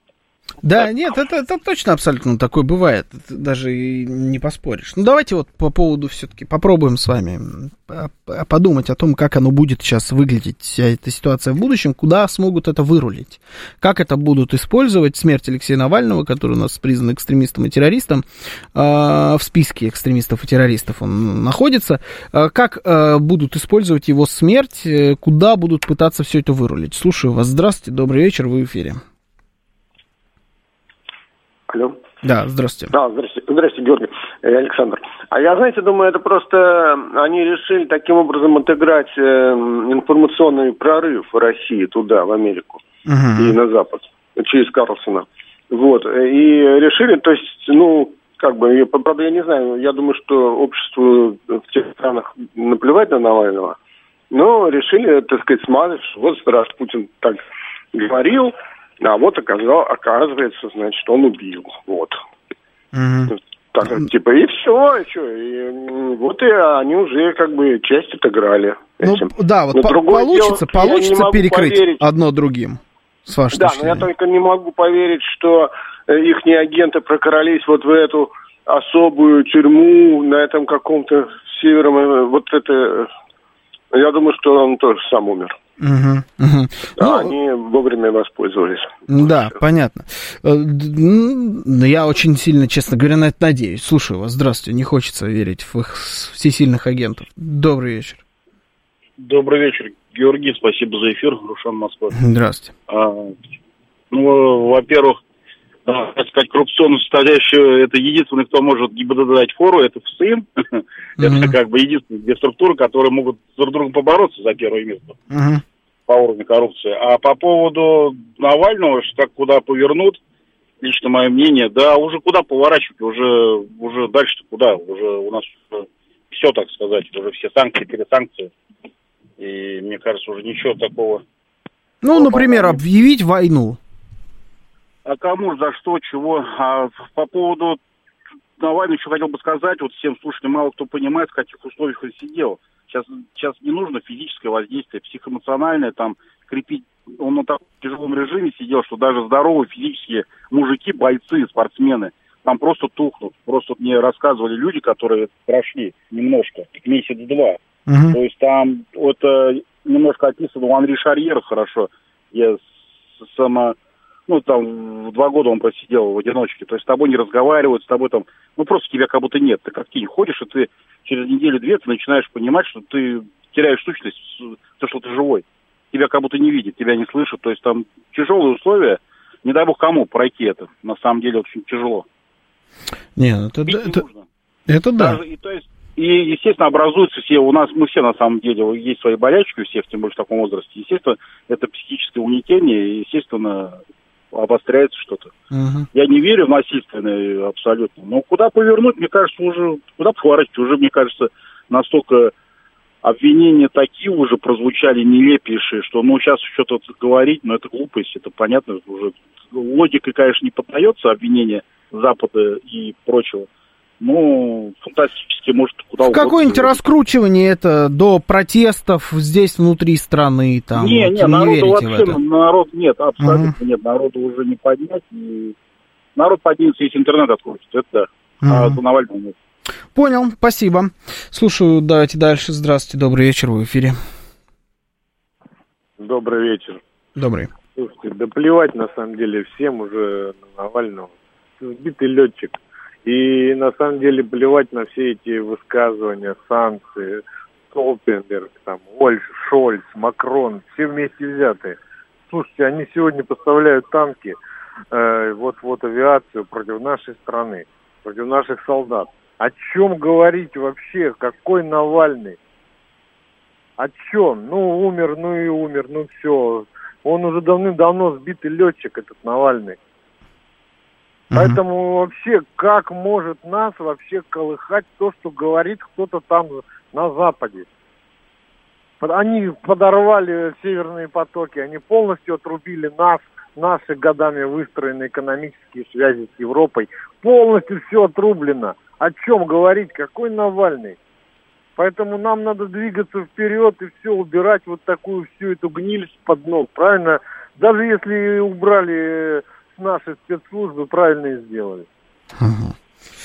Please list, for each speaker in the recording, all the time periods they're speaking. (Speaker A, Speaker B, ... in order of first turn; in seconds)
Speaker A: 0.6-29.0, 32.2-32.9, 43.1-43.6, 62.9-63.3, 69.0-74.1, 85.8-87.3, 89.1-98.2, 102.1-102.7, 111.2-111.5, 115.3-115.6, 132.0-133.8, 157.9-158.2, 183.2-184.0, 184.7-185.2, 195.5-195.9, 216.0-222.2, 223.2-223.5, 228.4-228.8, 229.9-234.0, 237.2-237.5, 271.3-271.6, 302.4-302.8
Speaker B: 31.7-32.0, 32.9-42.8, 43.4-53.8, 54.3-57.4, 57.9-62.2, 63.3-72.0, 73.5-83.1, 83.9-85.5, 87.0-89.5
Speaker C: 99.2-102.2, 102.9-103.3, 104.1-105.2, 105.9-115.2, 116.1-120.2, 120.8-128.5, 129.4-131.2, 132.1-132.8, 135.1-137.8, 138.6-157.6, 158.1-163.8, 164.3-182.1, 183.7-184.3, 185.0-193.8, 194.3-195.3, 195.9-202.3, 203.0-213.5, 214.0-216.8, 220.7-225.5, 226.2-229.3
Speaker D: 236.0-236.8, 237.8-251.8, 252.3-254.4, 254.9-262.4, 263.8-269.8, 271.3-277.7, 279.0-291.0, 291.8-301.9